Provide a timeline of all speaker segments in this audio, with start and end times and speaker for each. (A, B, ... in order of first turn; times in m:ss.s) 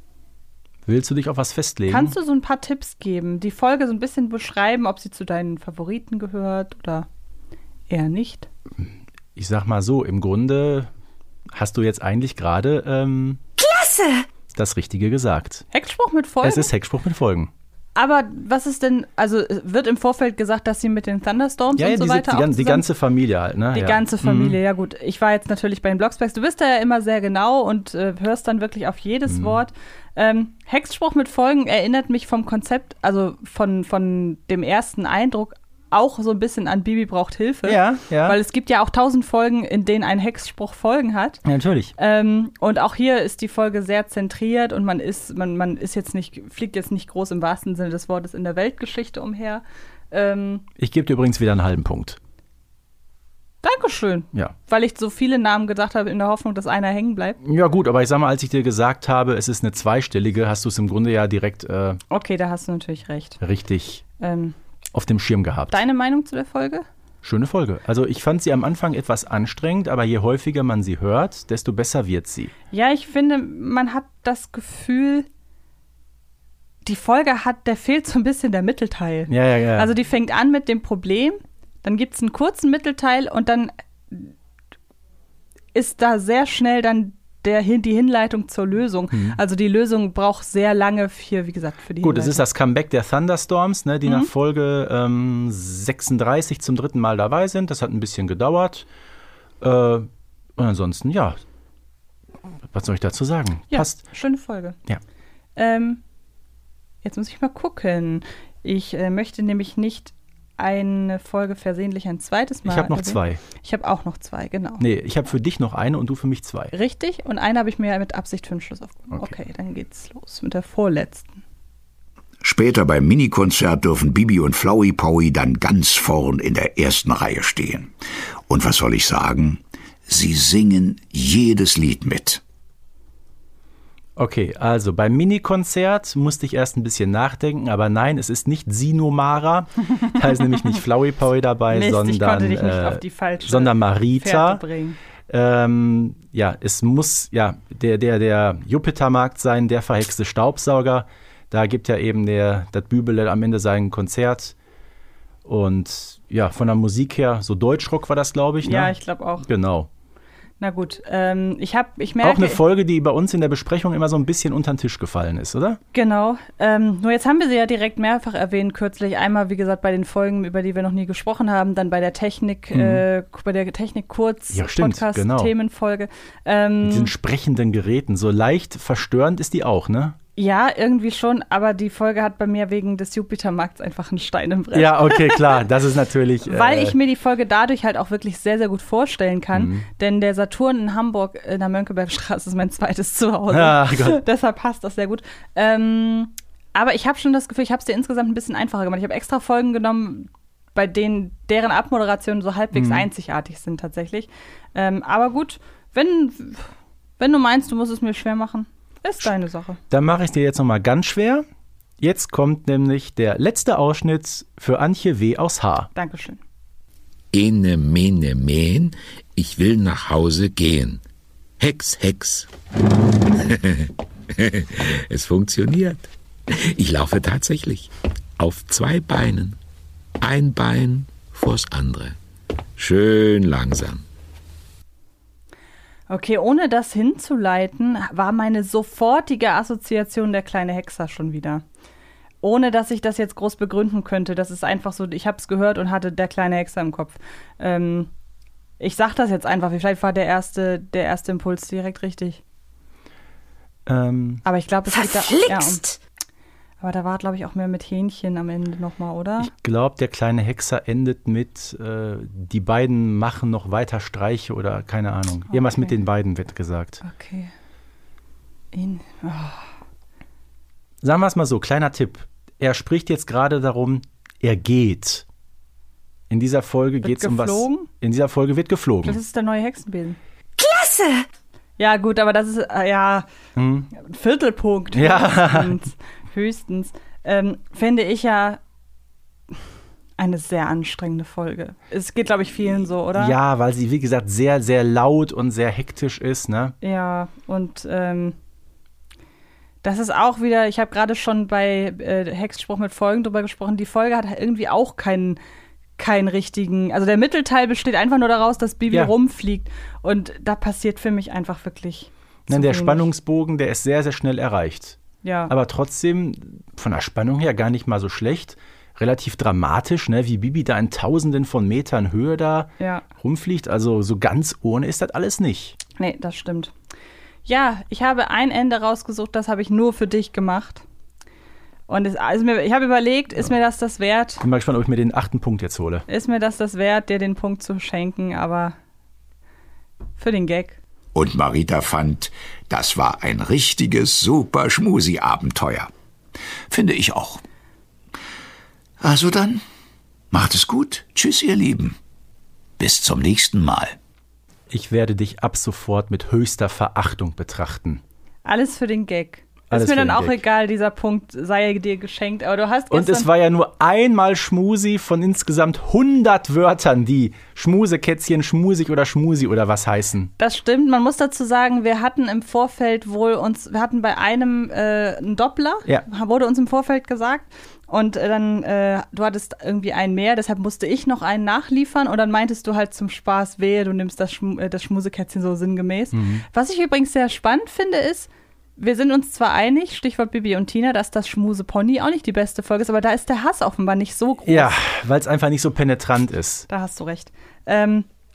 0:00.9-0:02.2 A
0:01.9-0:07.1 B
0:07.9-0:08.5 B
0:09.4-0:10.9 A
0:11.5-0:13.4 A
0:13.6-0:14.3 C
0:14.6-0:15.6 A
0:15.7-0:16.7 B
0:16.4-0:17.5 A
0:18.0-0:22.8 B
0:21.8-0:24.6 A
0:23.7-0:41.4 B
0:29.3-0:29.6 A
0:37.6-0:38.4 A
0:41.4-0:41.9 A
0:42.0-0:50.6 B
0:50.8-0:52.2 A
0:53.6-0:57.4 B
0:57.4-1:02.0 A
1:02.1-1:03.4 B
1:03.4-1:04.0 A
1:04.2-1:04.6 B
1:04.9-1:05.8 A
1:05.7-1:06.9 B
1:07.2-1:12.5 A
1:12.7-1:15.3 B
1:16.8-1:24.3 B
1:19.3-1:19.9 A
1:25.7-1:32.4 B
1:29.1-1:29.4 A
1:32.0-1:38.9 A
1:34.0-1:34.3 B
1:39.6-1:41.4 A
1:42.7-1:44.0 A
1:43.7-1:44.8 B
1:45.6-1:46.0 B
1:47.0-1:54.8 B
1:52.6-1:53.4 A
1:54.8-1:56.7 A
1:56.7-2:01.4 B
2:02.4-2:07.9 D
2:08.5-2:12.4 D
2:14.2-2:24.6 A
2:21.7-2:25.0 B
2:25.3-2:34.5 A
2:35.4-2:39.9 A
2:38.6-2:39.5 B
2:40.6-2:42.6 B
2:42.2-2:45.8 A
2:45.9-2:57.1 B
2:52.7-2:53.0 A
2:54.5-2:55.5 A
2:56.8-3:00.2 A
3:00.4-3:05.6 B
3:04.7-3:07.0 A
3:06.4-3:29.8 B
3:09.5-3:09.8 A
3:13.5-3:14.2 A
3:22.8-3:23.1 A
3:29.9-3:31.4 A
3:32.0-3:35.9 A
3:36.0-3:36.4 B
3:37.3-3:41.0 E
3:41.6-3:42.5 E
3:43.2-3:49.6 E
3:50.2-3:52.2 E
3:52.8-3:54.0 E
3:56.1-4:01.6 B
4:02.4-4:08.1 B
4:08.8-4:12.4 B
4:13.9-4:14.4 A
4:14.4-4:15.8 B
4:14.9-4:16.0 C
4:16.8-4:19.5 B
4:19.4-4:27.0 A
4:25.5-4:26.0 B
4:27.0-4:27.5 B
4:28.7-4:29.7 B
4:31.0-4:35.2 A
4:36.3-4:39.2 A
4:37.0-4:37.9 B
4:39.0-4:40.2 B
4:40.6-4:41.2 C
4:41.8-4:43.3 B
4:43.6-4:43.9 A
4:43.9-4:48.6 B
4:45.0-4:45.8 A
4:50.2-4:53.4 B
4:53.2-4:56.8 A
4:56.8-4:58.4 B
4:59.8-5:05.4 B
5:06.0-5:13.1 B
5:12.5-5:15.0 A
5:15.2-5:15.5 B
5:15.5-5:25.8 A
5:22.8-5:23.0 B
5:26.0-5:26.7 B
5:27.5-5:30.8 B
5:31.9-5:34.4 B
5:34.4-5:36.1 A
5:36.1-5:38.8 B
5:40.2-5:40.8 B
5:41.1-5:45.9 D
5:46.7-5:47.4 D
5:49.0-5:49.6 D
5:50.3-5:52.0 D
5:52.8-5:54.0 D
5:54.7-5:58.0 A
5:58.4-6:03.3 B
5:59.7-6:00.4 A
6:02.9-6:10.3 A
6:10.4-6:34.8 B
6:26.1-6:26.4 A
6:34.5-6:36.7 A
6:36.7-6:38.1 B